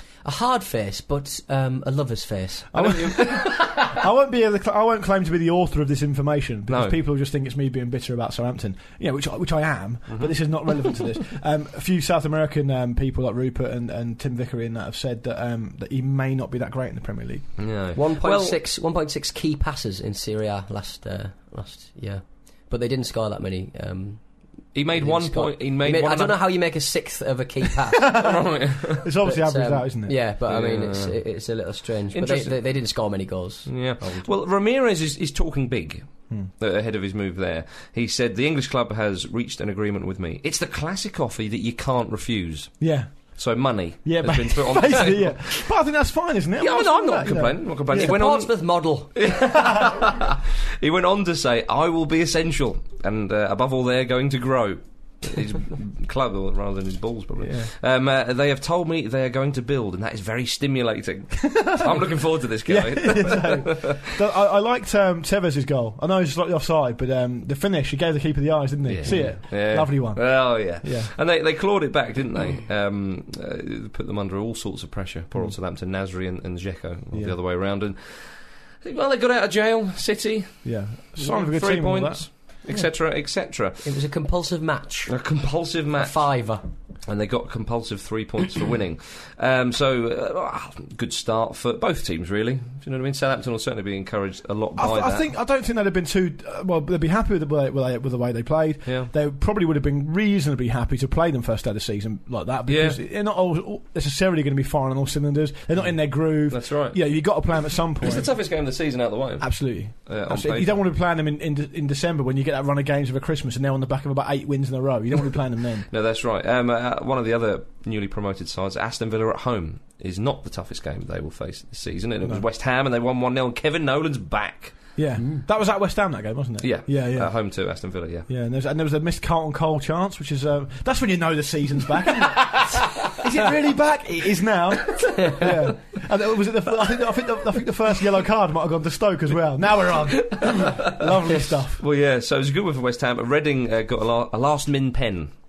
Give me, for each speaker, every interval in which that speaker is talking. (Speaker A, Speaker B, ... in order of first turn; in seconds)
Speaker A: 0.2-2.7, 17.9-28.1, 29.2-34.3, 47.9-49.1, 83.8-85.1, 86.0-86.6
Speaker B: 2.7-17.5, 28.0-30.1, 42.8-43.1, 44.0-48.1, 57.4-57.7, 61.4-71.1, 80.6-82.2, 94.8-108.3, 109.4-115.9, 125.0-127.3, 128.3-141.8
Speaker C: 2.7-3.9, 6.7-7.0, 10.1-10.9, 17.6-18.6, 24.7-26.4, 28.1-29.1, 30.4-31.2, 32.1-32.5, 33.6-36.1, 36.6-42.8, 43.3-45.7, 46.6-64.1, 68.8-78.3, 78.8-83.8, 85.1-86.2, 87.0-95.3, 98.8-99.1, 102.7-103.0, 106.5-107.0, 108.0-110.8, 115.9-124.8, 126.6-128.3, 135.0-135.4, 140.2-141.1, 141.8-145.3